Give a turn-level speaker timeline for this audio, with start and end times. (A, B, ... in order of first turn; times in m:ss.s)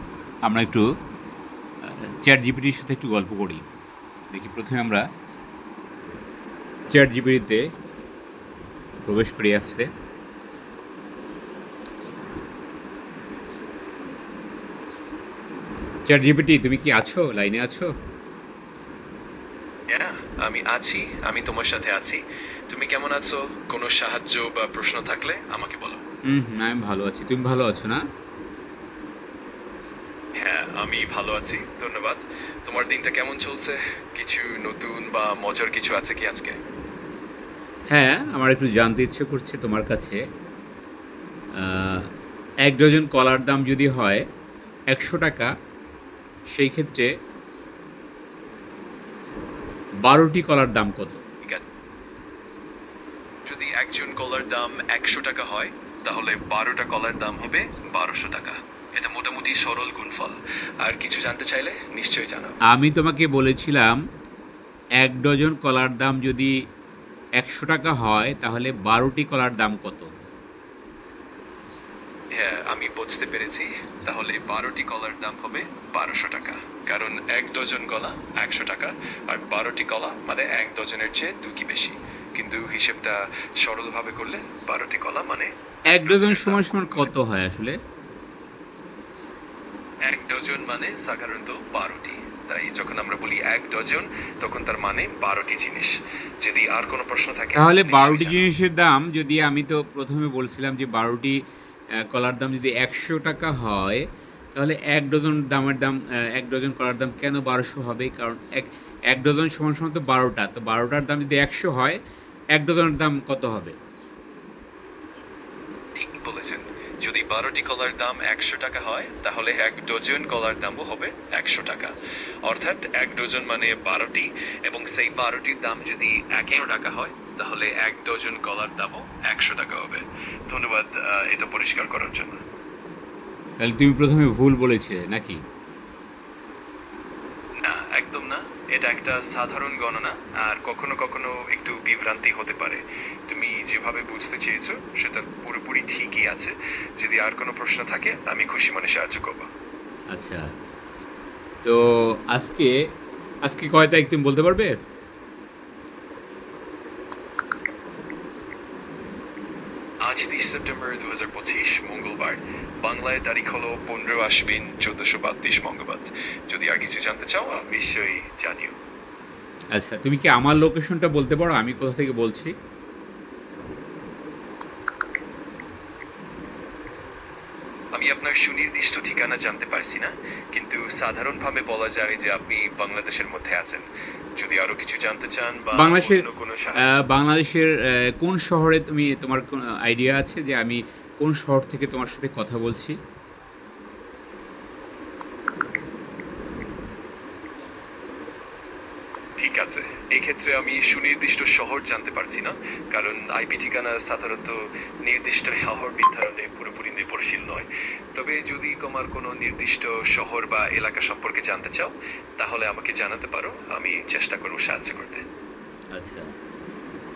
0:00.4-0:00.9 A
0:01.8-0:03.6 A
0:04.3-0:05.0 A
0:06.9-0:07.6 A
0:09.0-0:09.9 A
0:16.1-0:17.9 A
0:19.9-0:26.0 B
0:26.3-0:28.0 A
0:30.4-0:36.6 B
0:37.9-0:40.2 A
0:41.6-0:42.0 A
0:42.6-0:44.2 A
0:44.9-0:45.5 A
0:46.5-0:47.1 A
0:50.0-0:51.2 A
0:53.4-1:02.6 B
1:02.7-1:04.0 A
1:05.0-1:06.5 A
1:07.4-1:10.1 A
1:12.3-1:27.1 B
1:25.9-1:27.8 A
1:30.1-1:38.5 B
1:37.6-1:41.4 A
1:42.1-1:44.0 A
1:44.5-1:52.0 A
1:52.5-1:53.7 A
1:55.9-2:01.9 B
2:02.4-2:12.4 B
2:13.6-2:15.4 A
2:17.6-2:29.5 B
2:30.1-2:30.4 A
2:31.6-2:32.7 A
2:33.4-2:34.7 A
2:40.0-2:48.7 B
2:49.7-2:52.5 A
2:57.9-3:03.8 B
3:04.4-3:06.8 B
3:05.8-3:06.2 A
3:06.8-3:13.0 A
3:19.4-3:35.2 B
3:35.9-3:36.2 A